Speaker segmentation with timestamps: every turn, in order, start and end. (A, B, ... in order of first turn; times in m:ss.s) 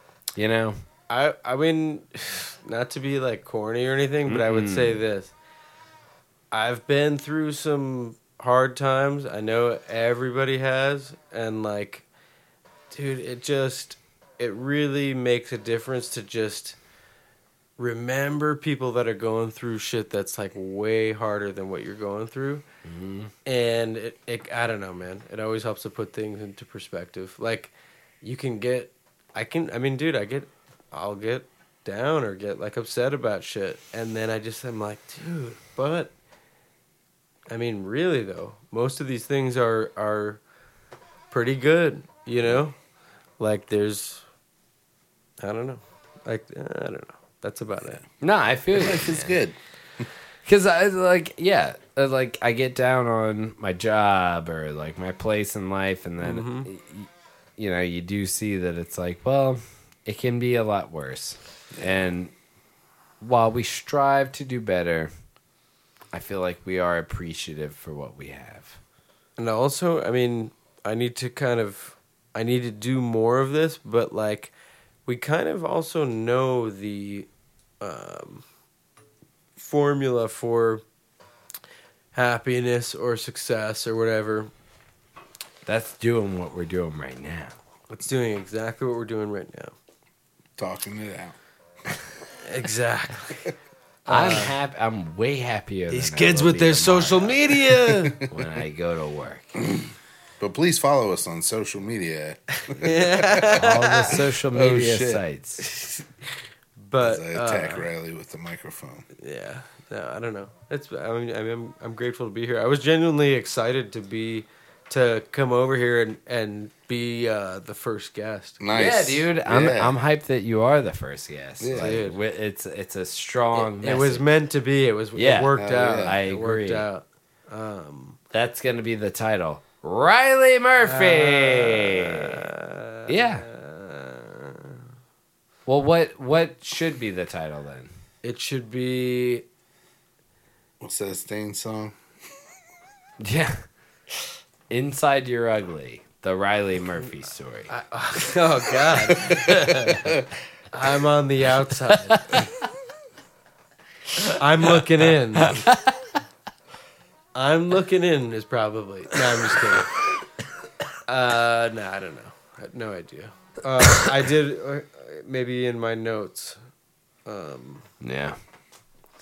0:00.4-0:00.8 A
0:01.1-0:05.3 B
0:04.2-0:05.0 A
0:06.5-0:12.0 B
0:12.9-0:16.8 B
0:17.8-0:22.6 B
0:22.8-0:23.3 A
0:23.4-0:36.1 B
0:37.5-0:40.4 B
0:41.3-0:42.8 B
0:43.4-0:44.2 B
0:45.4-0:48.0 B
0:48.2-0:49.4 A
0:48.7-0:50.1 C
0:50.4-1:02.3 A
0:56.2-0:56.7 B
1:01.7-1:02.1 C
1:03.2-1:05.1 A
1:06.1-1:08.8 A
1:09.4-1:14.5 B
1:15.1-1:17.3 B
1:17.8-1:18.4 B
1:19.6-1:20.8 B
1:22.1-1:24.5 B
1:25.6-1:27.5 A
1:27.9-1:29.7 B
1:30.6-1:31.4 C
1:32.4-1:33.5 B
1:34.0-1:34.6 B
1:34.1-1:37.5 A
1:35.9-1:38.2 B
1:38.3-1:39.5 A
1:40.4-1:45.2 C
1:42.7-1:44.2 B
1:43.5-1:45.6 A
1:45.6-1:46.0 B
1:46.8-1:47.9 B
1:47.0-1:49.0 C
1:49.2-1:58.6 B
1:58.6-1:59.9 C
1:58.7-2:04.2 A
2:01.6-2:02.0 C
2:01.8-2:02.2 B
2:03.5-2:08.2 B
2:05.1-2:06.9 A
2:05.6-2:06.2 C
2:08.3-2:12.4 A
2:10.8-2:14.8 B
2:13.1-2:13.4 A
2:15.6-2:17.9 A
2:18.2-2:19.4 B
2:20.8-2:21.9 C
2:23.2-2:23.6 A
2:24.7-2:27.7 A
2:27.7-2:30.0 B
2:29.2-2:29.9 A
2:30.7-2:32.4 B
2:31.9-2:32.4 A
2:34.4-2:35.6 B
2:35.3-2:35.9 A
2:37.3-2:39.9 B
2:41.1-2:46.6 B
2:47.2-2:47.8 B
2:48.0-2:48.4 A